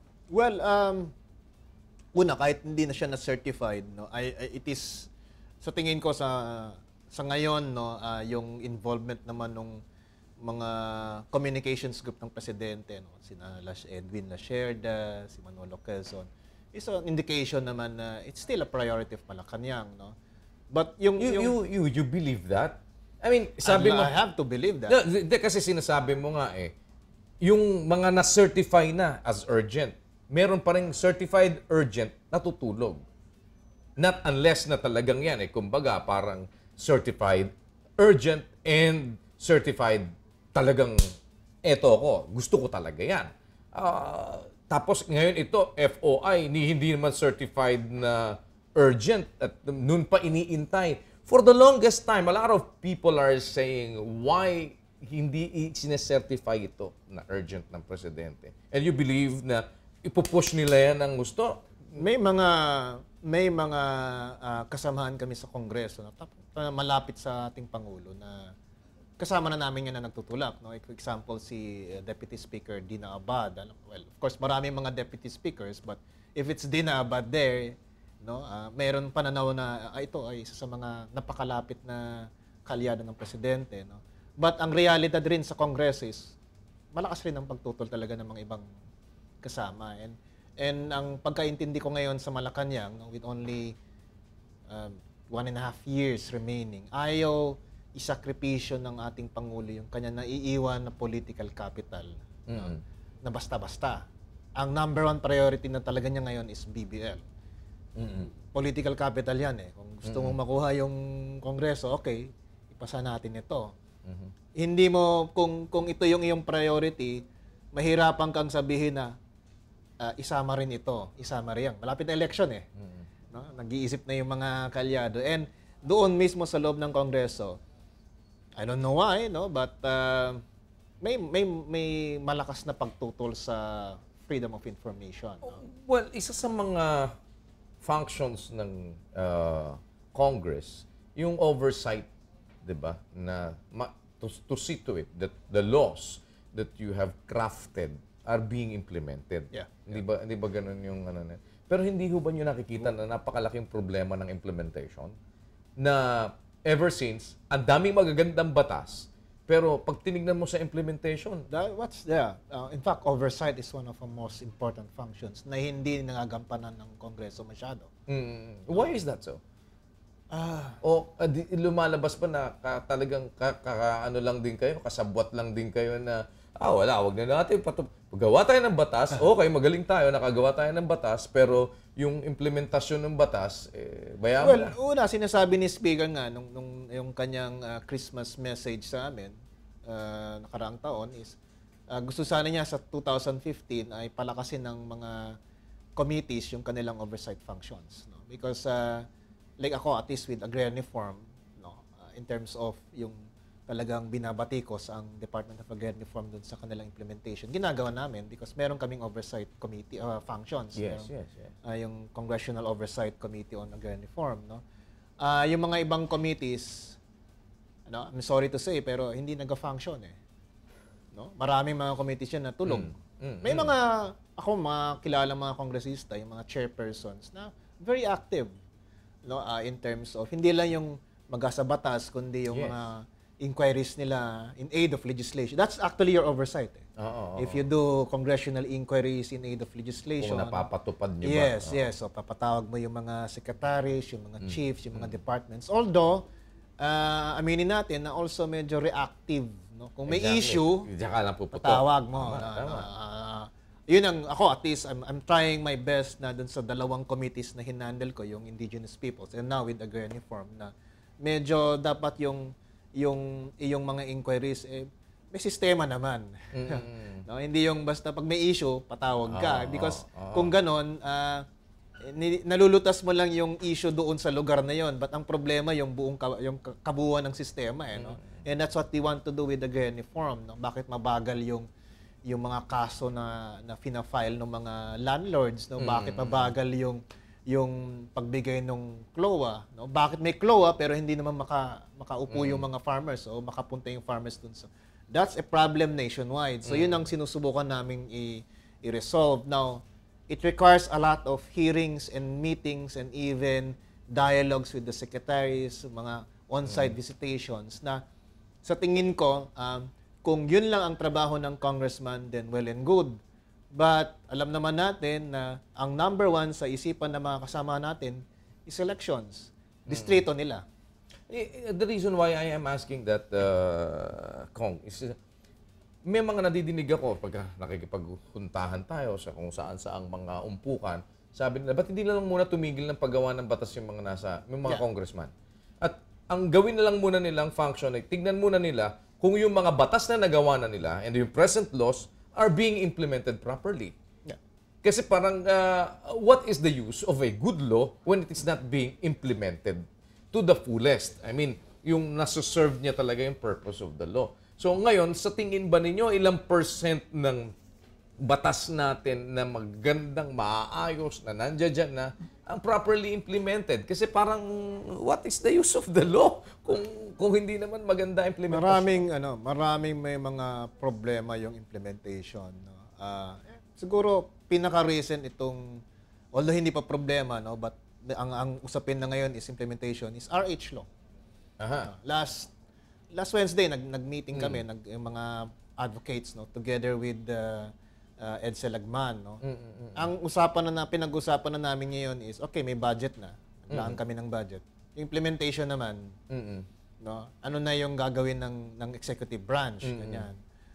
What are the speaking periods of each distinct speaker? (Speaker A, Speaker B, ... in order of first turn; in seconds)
Speaker A: 0.3-1.1, 2.1-5.1, 5.6-9.8, 10.4-20.1, 20.7-21.5, 23.6-24.9, 62.0-68.5, 69.2-86.3, 86.9-88.6, 89.4-93.7, 94.7-104.0, 104.6-107.2, 108.1-113.7, 114.6-117.2, 117.7-119.1, 120.0-122.6, 123.3-127.6, 128.6-130.4, 131.0-135.6, 149.5-149.9, 161.5-167.9, 170.3-170.8, 184.4-189.3, 189.8-191.4, 191.9-195.3, 195.9-199.0, 199.6-211.1, 211.6-214.6, 215.2-217.0, 217.9-220.2, 221.1-228.5, 229.2-236.8, 237.4-240.6, 241.2-246.2, 246.8-250.9, 251.5-260.7, 261.2-271.4, 272.0-281.6, 282.3-308.0, 308.6-313.2, 313.7-320.6, 368.5-375.8, 376.3-380.9, 381.8-382.5, 383.1-389.4, 389.9-396.1, 397.0-400.4
Speaker B: 21.2-24.1, 24.9-26.7, 27.4-33.0, 34.0-41.0, 41.6-61.6, 102.5-102.8, 108.0-108.3, 110.0-110.4, 114.0-114.3, 135.4-137.1, 137.8-142.1, 142.6-155.1, 155.8-161.4, 168.1-169.4, 170.8-184.7, 210.7-211.5, 222.7-223.7, 232.5-232.8, 237.0-237.6, 240.2-241.8, 244.4-245.2, 250.1-252.8, 266.5-267.2, 269.3-270.5, 277.9-278.4, 285.8-286.5, 292.3-292.6, 296.6-297.1, 306.6-306.9, 319.9-320.2, 321.3-325.1, 326.1-343.9, 344.8-357.5, 358.2-369.0, 381.6-381.9, 384.3-384.6, 389.4-390.1, 393.7-394.0, 396.3-396.7, 399.8-400.3